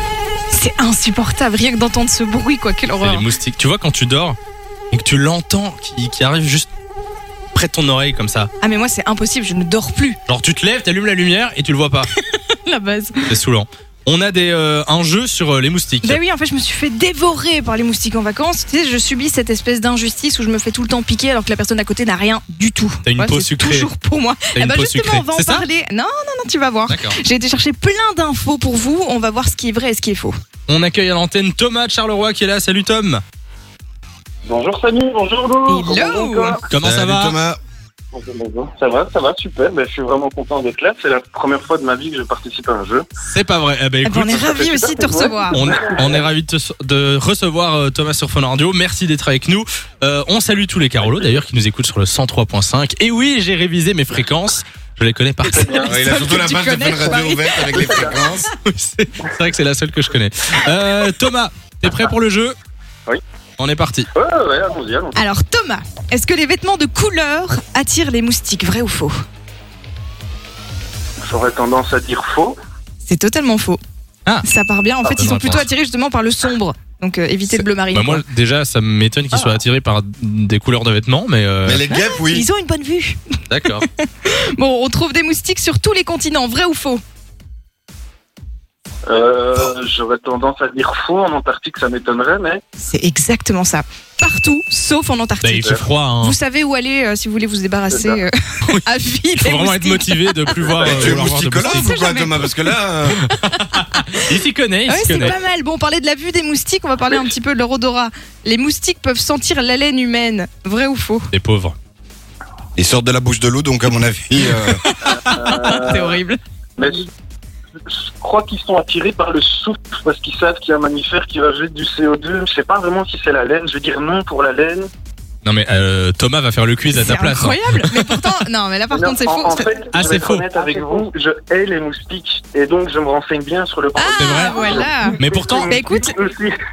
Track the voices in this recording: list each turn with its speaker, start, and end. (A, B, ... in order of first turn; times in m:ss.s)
0:00.5-0:03.3 A
0:03.0-0:04.4 B
0:04.9-0:06.7 B
0:07.5-0:08.5 B
0:08.6-0:10.2 A
0:10.3-0:12.1 B
0:12.2-0:13.3 A
0:13.3-0:16.2 B
0:16.0-0:30.4 A
0:23.0-0:23.9 B
0:24.5-0:25.7 B
0:26.9-0:27.2 B
0:30.7-0:33.2 B
0:34.4-0:36.6 C
0:35.7-0:36.6 A
0:36.7-0:37.4 B
0:36.8-0:37.6 D
0:38.1-0:43.1 C
0:43.2-0:44.5 B
0:44.0-0:45.7 A
0:44.4-0:46.3 C
0:45.5-0:55.9 B
0:55.5-0:56.3 C
0:55.5-0:58.2 A
0:55.9-0:58.5 D
0:57.6-0:58.4 C
0:58.6-1:02.6 B
1:03.6-1:04.1 B
1:04.1-1:05.2 C
1:05.2-1:09.1 A
1:11.3-1:12.6 C
1:13.0-1:13.8 A
1:14.4-1:18.2 A
1:15.0-1:15.7 B
1:17.5-1:21.8 B
1:21.6-1:22.5 D
1:21.9-1:23.2 A
1:23.5-1:23.9 B
1:23.8-1:27.0 A
1:29.1-1:32.6 C
1:32.8-1:40.4 A
1:35.4-1:36.4 B
1:37.9-1:38.2 C
1:39.4-1:41.9 B
1:40.7-1:41.1 C
1:40.8-1:43.3 D
1:41.5-1:42.8 A
1:43.2-1:45.4 B
1:43.5-1:44.2 A
1:44.9-1:51.3 A
1:51.3-1:51.8 B
1:52.8-1:54.8 D
1:54.6-1:56.4 A
1:55.1-1:56.2 C
1:56.8-1:57.1 C
1:57.9-2:04.9 C
2:05.4-2:08.3 B
2:07.0-2:09.9 A
2:08.9-2:16.6 C
2:09.9-2:10.5 B
2:14.0-2:15.2 A
2:14.1-2:15.8 B
2:15.7-2:16.2 A